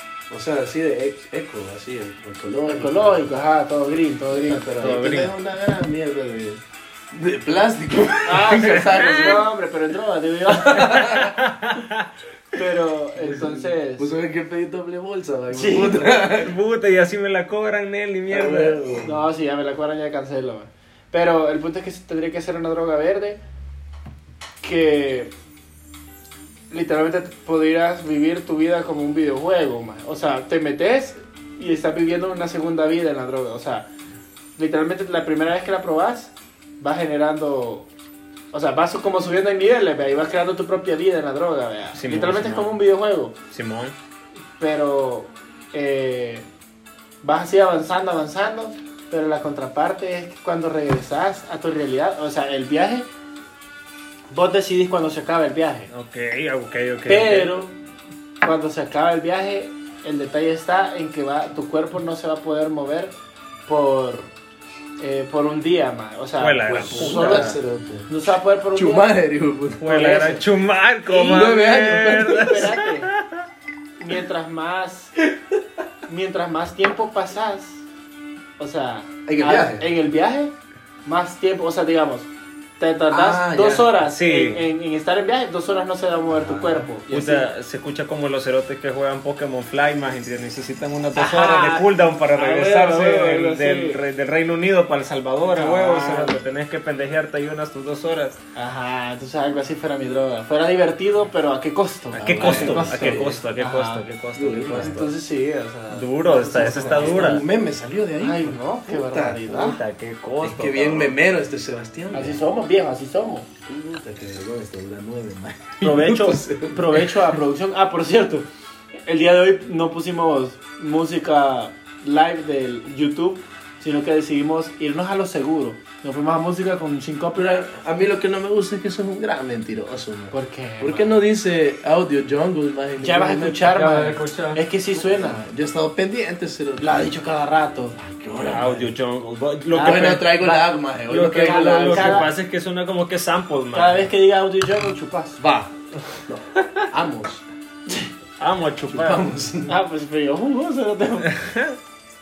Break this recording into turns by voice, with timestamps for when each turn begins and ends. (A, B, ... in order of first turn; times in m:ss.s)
0:00.3-0:03.3 A
0:02.7-0:04.8 B
0:04.3-0:09.4 A
0:04.8-0:05.3 C
0:08.2-0:11.3 B
0:08.7-0:09.4 C
0:10.6-0:11.4 A
0:11.0-0:12.1 C
0:12.5-0:14.1 B
0:13.2-0:16.5 A
0:15.5-0:16.1 B
0:16.2-0:18.8 C
0:18.3-0:19.2 A
0:19.0-0:23.4 B
0:24.6-0:25.3 B
0:26.7-0:33.9 B
0:34.6-0:37.9 B
0:38.5-0:43.4 B
0:42.0-0:42.8 C
0:43.5-0:44.0 C
0:44.6-0:46.5 B
0:47.2-0:53.1 B
0:54.3-0:55.9 B
0:55.9-0:57.6 C
0:57.1-0:57.7 B
0:58.4-1:03.2 B
1:03.7-1:04.3 B
1:05.0-1:09.1 B
1:06.4-1:07.6 C
1:06.6-1:08.1 A
1:08.8-1:09.9 A
1:09.8-1:13.5 C
1:09.8-1:10.4 B
1:11.1-1:12.6 A
1:12.4-1:13.1 B
1:14.0-1:15.1 B
1:16.1-1:17.8 B
1:18.6-1:20.5 B
1:19.3-1:19.9 A
1:21.0-1:27.5 B
1:23.1-1:23.9 A
1:24.0-1:24.7 C
1:26.4-1:26.9 A
1:27.1-1:38.4 C
1:31.2-1:34.0 B
1:35.5-1:36.4 B
1:38.6-1:44.0 B
1:42.1-1:43.4 A
1:42.2-1:45.1 C
1:44.4-1:45.1 A
1:44.7-1:47.4 B
1:45.9-1:47.4 C
1:46.6-1:49.6 A
1:48.2-1:49.8 B
1:49.5-1:51.2 C
1:50.4-1:52.4 A
1:52.1-1:53.5 B
1:53.7-1:57.3 A
1:55.8-1:58.5 B
1:55.8-1:56.2 C
1:59.1-2:07.6 B
2:07.4-2:13.8 A
2:10.3-2:11.2 B
2:13.0-2:15.4 B
2:13.7-2:14.6 C
2:14.9-2:17.1 A
2:16.8-2:18.0 B
2:18.0-2:18.9 A
2:18.4-2:24.1 C
2:19.7-2:20.6 B
2:19.8-2:22.3 A
2:21.4-2:22.3 B
2:23.7-2:25.4 B
2:25.4-2:25.7 A
2:26.3-2:27.4 A
2:28.4-2:29.3 C
2:28.9-2:29.8 A
2:29.7-2:31.4 B
2:31.2-2:31.8 C